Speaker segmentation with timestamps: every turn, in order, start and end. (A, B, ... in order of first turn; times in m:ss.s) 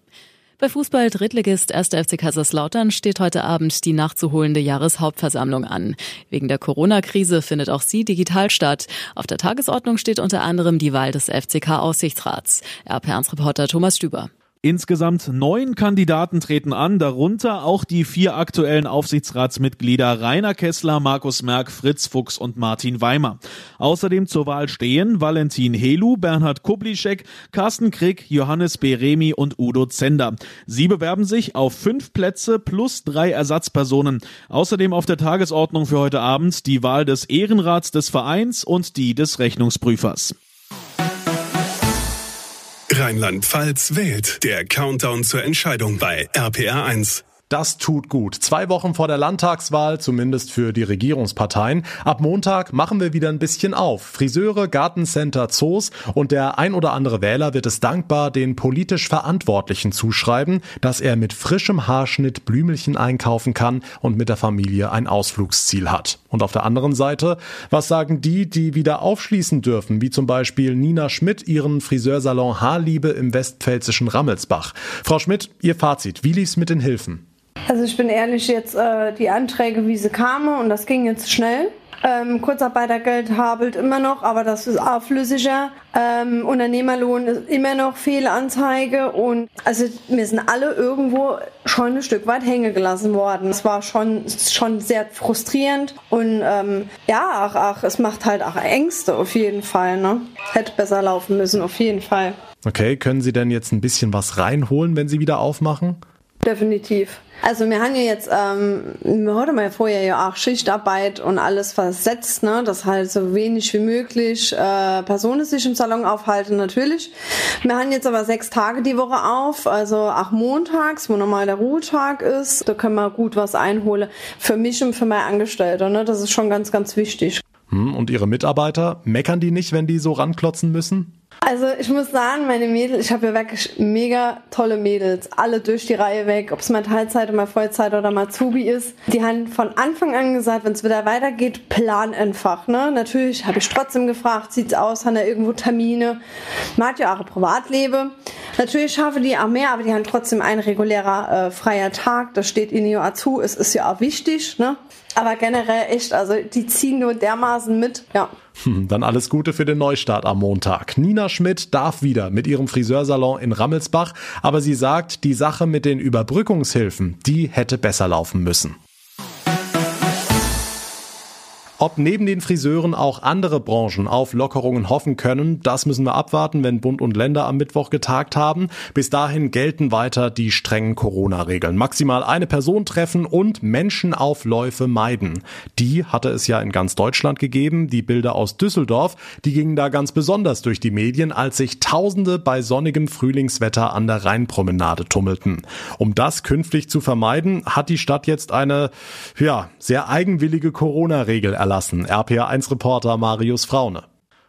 0:00.6-0:14.3 A
0:14.6-0:40.4 B
0:42.9-0:47.3 C
0:47.5-1:17.2 D
1:17.7-1:42.4 E
1:42.6-1:46.0 D
1:46.4-2:07.4 E
2:07.7-2:11.1 D
2:11.4-2:26.2 E
2:26.8-2:38.3 E
2:38.6-2:48.8 D
2:51.8-3:24.0 D